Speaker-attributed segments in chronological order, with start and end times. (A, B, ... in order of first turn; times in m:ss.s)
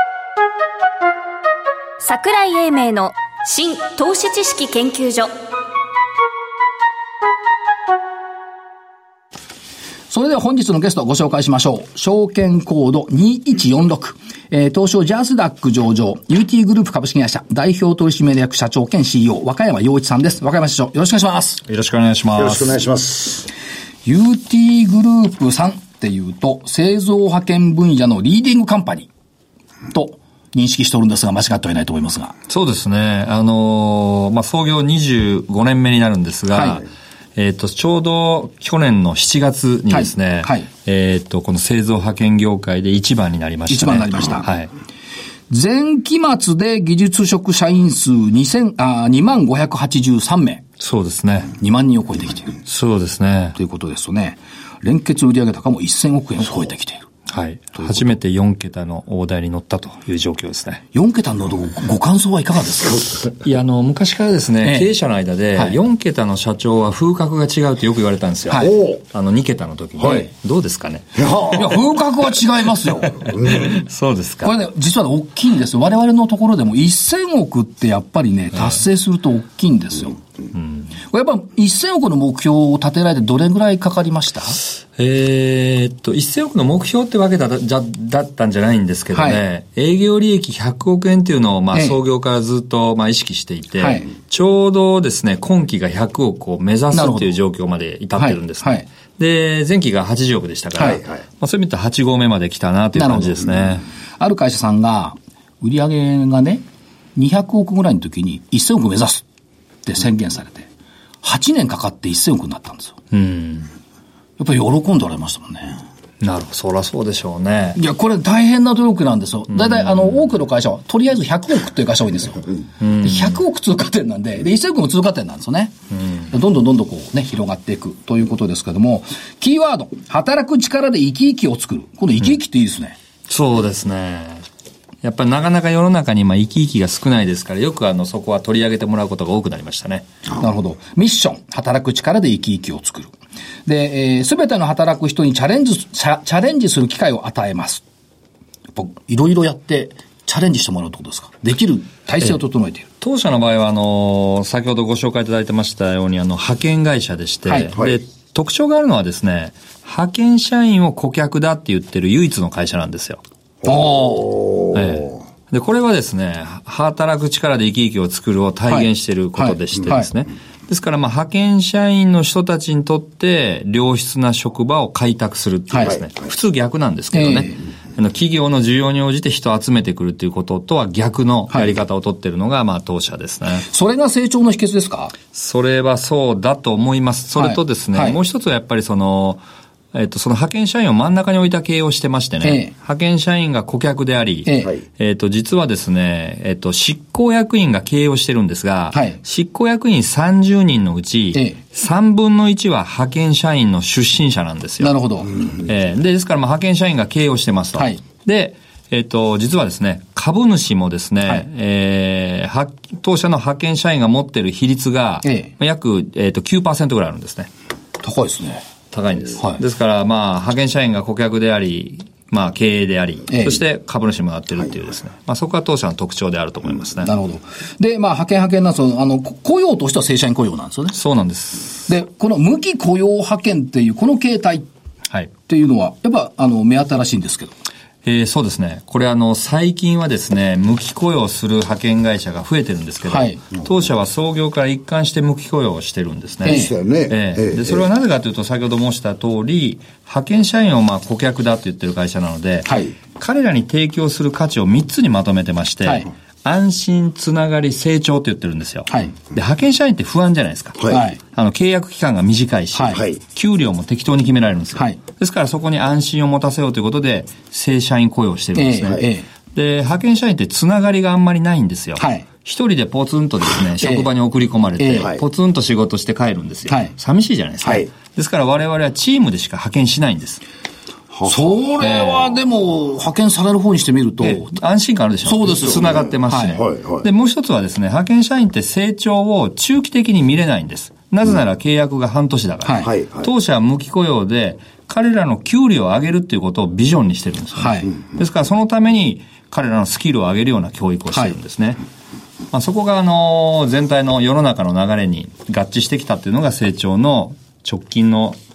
0:02.0-0:05.3 A
0:10.1-0:21.6 B
0:21.7-0:22.8 C
0:22.4-0:23.5 D
0:24.0-0:29.1 B
0:29.9-0:32.3 B
0:32.5-0:44.7 C
0:36.5-0:36.8 B
0:39.9-0:40.7 B
0:43.7-0:44.5 B
0:45.5-0:50.6 B
0:50.8-0:51.5 C
0:51.6-0:52.6 B
0:52.6-0:53.6 C
0:53.6-0:57.1 B
0:57.3-1:00.8 C
1:00.9-1:03.2 B
1:03.3-1:11.6 C
1:04.6-1:04.9 B
1:08.6-1:09.0 D
1:11.1-1:11.7 D
1:11.5-1:13.3 B
1:13.2-1:13.8 D
1:13.4-1:14.5 C
1:14.4-1:20.2 B
1:20.5-1:20.9 C
1:21.0-1:24.6 B
1:25.0-1:43.8 C
1:29.1-1:29.4 B
1:33.8-1:34.1 B
1:36.9-1:37.3 B
1:38.2-1:38.8 B
1:40.8-1:41.0 B
1:43.0-1:43.6 B
1:44.2-1:46.6 B
1:47.2-1:49.2 B
1:49.8-1:50.7 B
1:51.2-1:53.0 B
1:53.1-1:53.7 C
1:54.4-1:55.8 B
1:56.2-1:57.8 C
1:57.8-2:02.5 B
1:59.5-2:00.2 C
2:02.8-2:03.4 C
2:03.0-2:05.7 B
2:06.3-2:13.0 B
2:13.3-2:14.4 C
2:15.0-2:20.0 C
2:20.4-2:23.1 B
2:23.6-2:27.8 B
2:28.8-2:32.8 B
2:33.0-2:43.2 C
2:37.5-2:37.7 B
2:43.6-2:45.0 D
2:43.6-2:44.3 B
2:44.7-3:03.6 C
2:48.7-2:50.1 B
2:55.7-2:56.0 B
2:57.1-2:57.5 B
3:01.5-3:01.8 B
3:03.6-3:05.1 B
3:05.3-3:37.5 C
3:07.4-3:08.2 B
3:12.4-3:12.7 B
3:14.4-3:14.7 B
3:18.9-3:19.2 B
3:24.8-3:25.3 B
3:35.2-3:35.5 B
3:38.0-3:38.6 B
3:38.9-3:47.1 C
3:43.3-3:43.6 B
3:47.0-3:51.0 B
3:50.9-3:51.9 C
3:51.9-3:54.7 B
3:55.5-3:57.5 B
3:58.0-4:40.4 C
4:03.1-4:03.4 B
4:06.4-4:06.7 B
4:06.4-4:07.8 D
4:12.7-4:12.9 B
4:18.9-4:19.1 B
4:20.9-4:21.2 B
4:22.7-4:23.0 B
4:28.6-4:29.3 B
4:32.0-4:32.2 B
4:33.8-4:34.1 B
4:34.8-4:35.1 B
4:36.7-4:36.9 B
4:41.1-4:41.5 D
4:41.2-4:44.5 B
4:44.2-5:01.8 C
4:45.2-4:46.6 B
4:45.7-4:47.1 D
4:52.6-4:52.9 B
4:52.8-4:53.3 D
4:57.6-4:57.9 B
5:02.5-5:08.4 C